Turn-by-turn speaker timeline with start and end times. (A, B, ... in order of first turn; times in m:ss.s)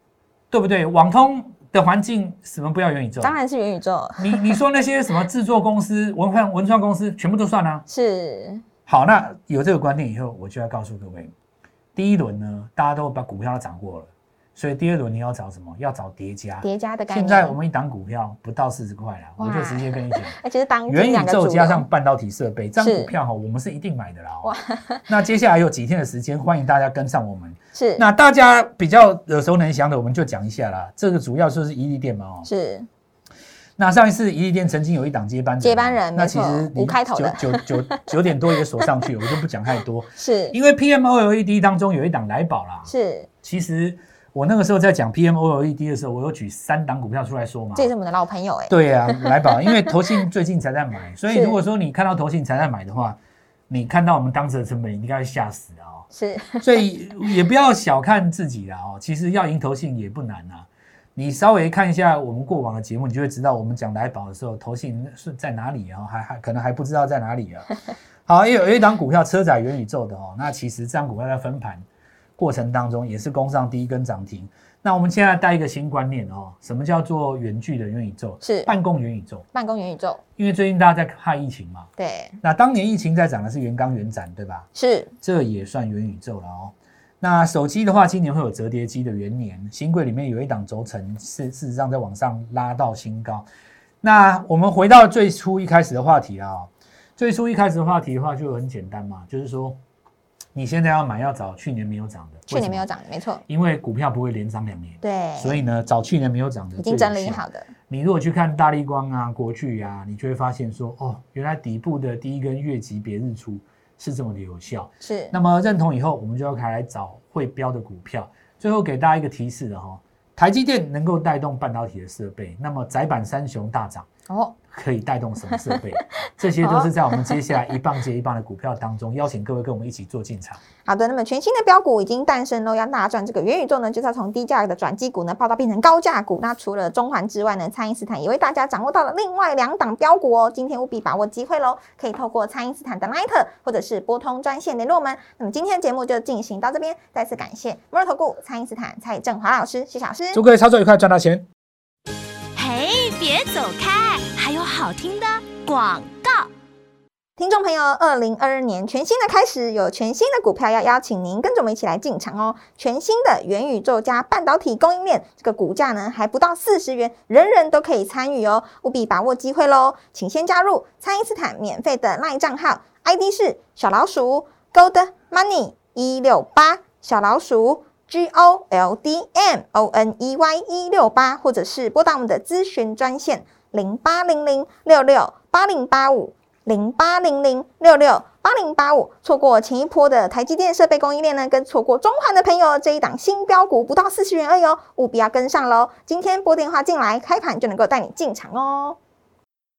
0:00.5-0:03.4 A
0:03.2-0:04.6 B
0:04.2-0:07.9 A
0:07.9-0:08.6 B
0:08.9-0:11.3 A
0:12.0-0:24.5 A
0:16.6-0:17.6 B
0:19.4-0:21.9 B
0:22.8-0:23.1 B
0:24.4-0:25.1 B
0:25.1-0:32.5 A
0:27.7-0:28.1 B
0:32.4-0:32.9 B
0:33.8-0:42.9 A
0:35.6-0:38.0 B
0:40.2-0:40.6 B
0:42.9-0:43.3 B
0:43.4-0:47.9 A
0:47.8-0:49.6 B
0:48.7-0:53.2 A
0:51.3-0:51.6 B
0:53.7-0:56.1 A
0:56.1-0:56.9 B
0:56.6-1:07.7 A
1:08.3-1:11.8 A
1:12.4-1:19.4 A
1:18.4-1:18.7 B
1:19.5-1:20.2 B
1:20.4-1:21.9 A
1:22.0-1:22.4 B
1:22.4-1:24.7 A
1:24.8-1:25.1 B
1:25.2-1:33.5 A
1:34.0-1:39.8 A
1:40.6-1:42.9 A
1:42.5-1:43.4 B
1:43.5-2:04.1 A
1:45.0-1:45.6 B
1:46.8-1:47.7 B
1:55.0-1:55.4 B
2:04.3-2:04.6 B
2:04.7-2:10.6 A
2:05.5-2:05.8 B
2:06.6-2:07.7 B
2:10.8-2:30.4 B
2:30.3-2:31.5 A
2:32.6-2:36.5 C
2:37.4-3:19.0 B